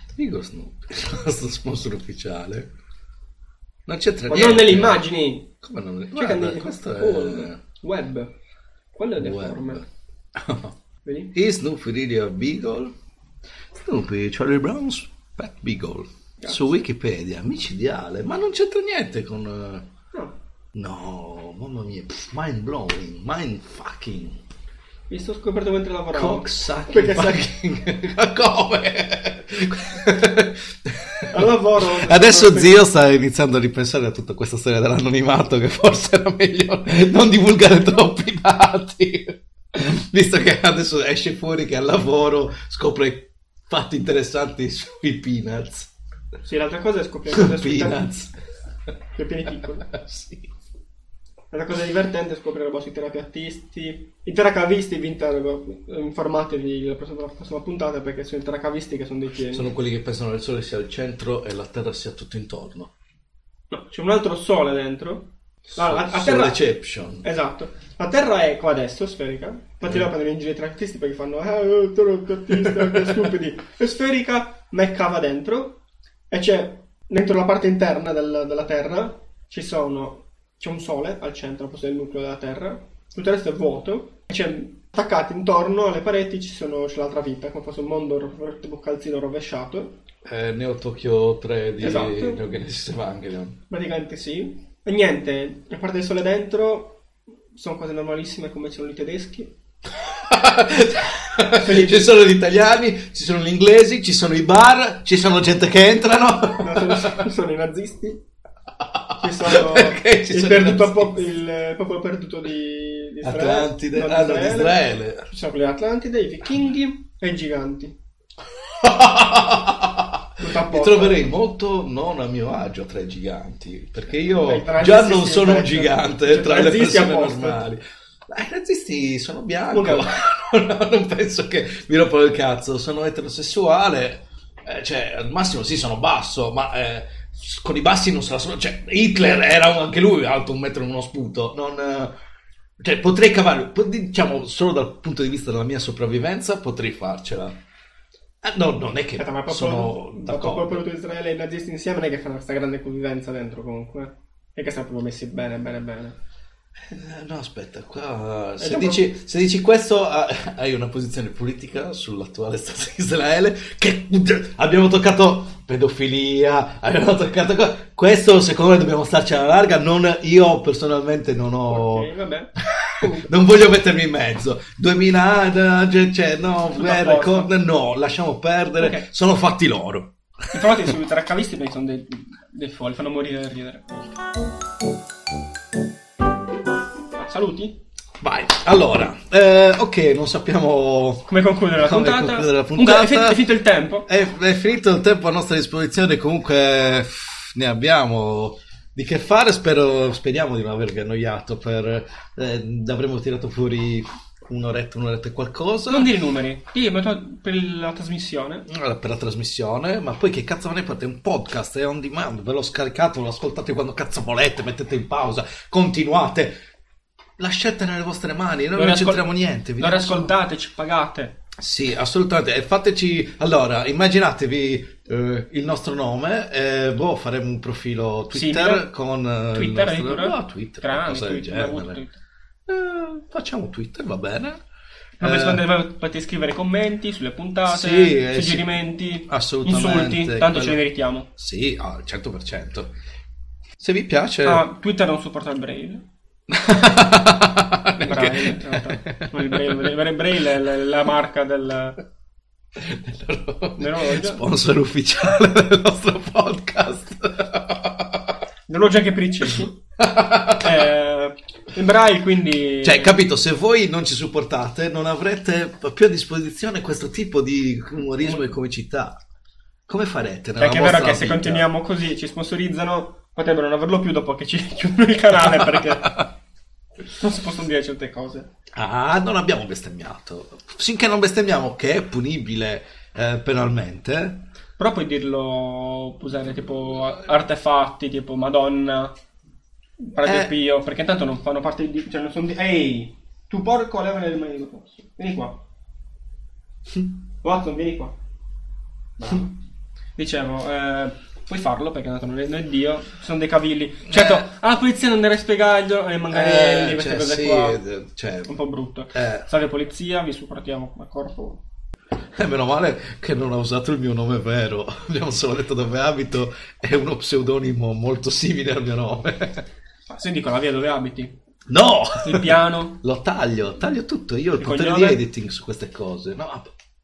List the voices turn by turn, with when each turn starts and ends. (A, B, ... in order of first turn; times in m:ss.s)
0:00.1-0:02.7 A
0:03.9-0:05.0 A
0:04.3-0:05.5 B
0:05.6-0:07.6 A
0:06.1-0:08.3 B
0:09.0-0:09.8 B
0:09.2-0:09.8 A
0:10.4-0:10.8 A
0:11.0-0:11.3 B
0:11.3-0:12.9 A
0:13.7-0:19.9 A
0:16.4-0:16.7 B
0:20.8-0:24.4 A
0:25.1-0:27.5 B
0:26.1-0:45.9 A
0:31.3-0:32.8 B
0:46.4-0:48.1 B
0:47.3-0:48.4 A
0:49.2-0:49.9 B
0:49.9-0:50.5 A
0:51.5-0:59.7 B
0:59.5-1:02.9 A
1:03.7-1:06.6 B
1:05.7-1:07.2 A
1:07.2-1:15.8 B
1:12.6-1:13.1 A
1:16.3-1:30.0 B
1:30.2-1:33.6 A
1:31.8-1:32.4 B
1:33.7-1:37.0 B
1:37.5-1:39.5 B
1:40.0-1:47.3 A
1:41.6-1:42.1 B
1:46.6-1:48.2 B
1:48.8-1:51.2 A
1:49.2-1:58.0 B
1:53.2-1:55.3 A
1:58.5-2:22.1 A
2:00.4-2:01.3 B
2:04.4-2:07.6 B
2:09.7-2:10.1 B
2:22.8-2:27.6 A
2:28.4-2:30.8 A
2:29.2-2:36.2 B
2:36.8-3:00.9 A
2:38.6-2:39.0 B
2:51.7-2:53.3 B
2:56.8-2:57.5 B
2:58.8-2:59.1 B
3:00.5-3:04.0 B
3:07.2-3:07.8 B
3:08.2-3:13.5 A
3:11.3-3:14.1 B
3:14.1-3:26.1 A
3:25.9-3:28.7 B
3:28.7-3:36.6 A
3:37.4-3:40.4 A
3:38.7-3:39.3 B
3:39.8-3:41.4 B
3:41.6-3:52.0 A
3:48.3-3:48.9 B
3:49.5-3:52.2 B
3:52.7-3:54.6 A
3:55.2-4:01.3 B
3:55.2-3:55.7 A
3:57.7-4:00.8 A
4:01.4-4:02.9 A
4:03.8-4:04.6 A
4:04.4-4:06.1 B
4:06.5-4:10.0 A
4:08.0-4:12.0 B
4:12.8-4:18.4 A
4:13.8-4:14.4 B
4:18.7-4:19.8 B
4:20.0-4:20.9 A
4:20.6-4:23.2 B
4:22.8-4:29.2 A
4:28.2-4:28.4 B
4:29.9-4:31.7 A
4:30.6-4:36.2 B
4:35.5-4:36.3 A
4:37.2-4:38.5 B
4:38.7-4:44.5 A
4:44.8-4:49.1 B
4:50.0-4:55.6 B
4:50.2-4:50.5 A
4:57.4-4:58.2 B
5:00.2-5:07.8 B
5:04.1-5:04.5 A
5:06.3-5:08.5 A
5:08.5-5:11.6 B
5:09.1-5:09.5 A
5:12.4-5:19.7 A
5:20.1-5:21.4 B
5:21.7-5:26.7 A
5:22.2-5:23.0 B
5:24.6-5:25.2 B